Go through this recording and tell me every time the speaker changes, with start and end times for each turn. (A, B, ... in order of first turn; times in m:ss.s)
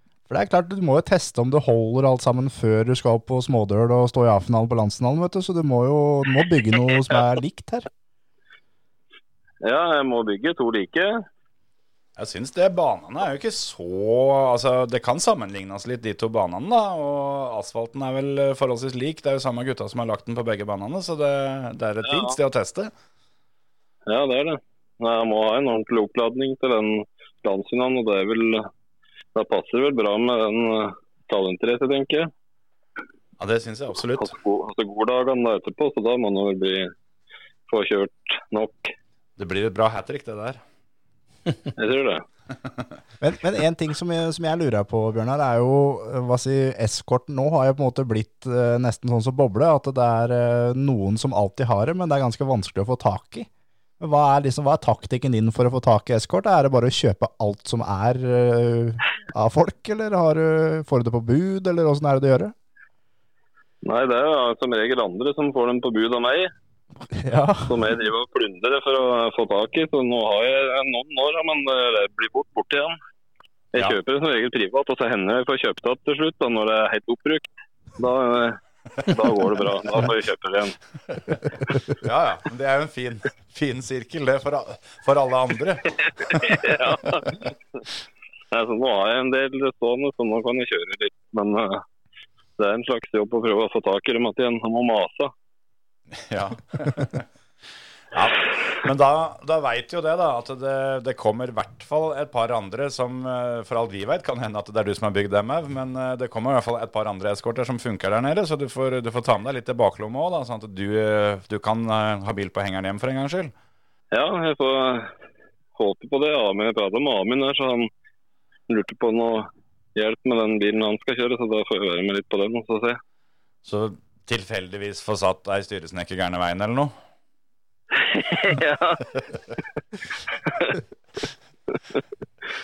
0:00.3-0:07.9 A
0:09.6-0:11.2 B
0:12.2-0:22.9 C
0:22.0-0:22.4 B
0:24.1-0:28.7 B
0:29.3-0:32.3 B
0:33.4-0:34.3 C
0:34.2-0:36.9 B
0:37.7-0:38.9 B
0:39.4-0:40.6 C
0:41.8-0:42.2 B
0:43.2-0:53.5 A
0:54.0-1:02.5 A
1:03.8-1:06.5 B
1:07.1-1:07.8 A
1:07.7-1:13.0 B
1:13.7-1:20.8 B
1:21.9-1:27.0 C
1:26.0-1:27.4 B
1:28.5-1:31.8 B
1:32.6-1:35.3 B
1:36.2-1:37.2 C
1:38.1-1:53.5 C
1:54.1-1:55.1 B
1:55.7-1:57.9 B
1:58.7-2:03.0 B
2:03.6-2:06.9 C
2:07.9-2:09.1 B
2:10.4-2:10.8 B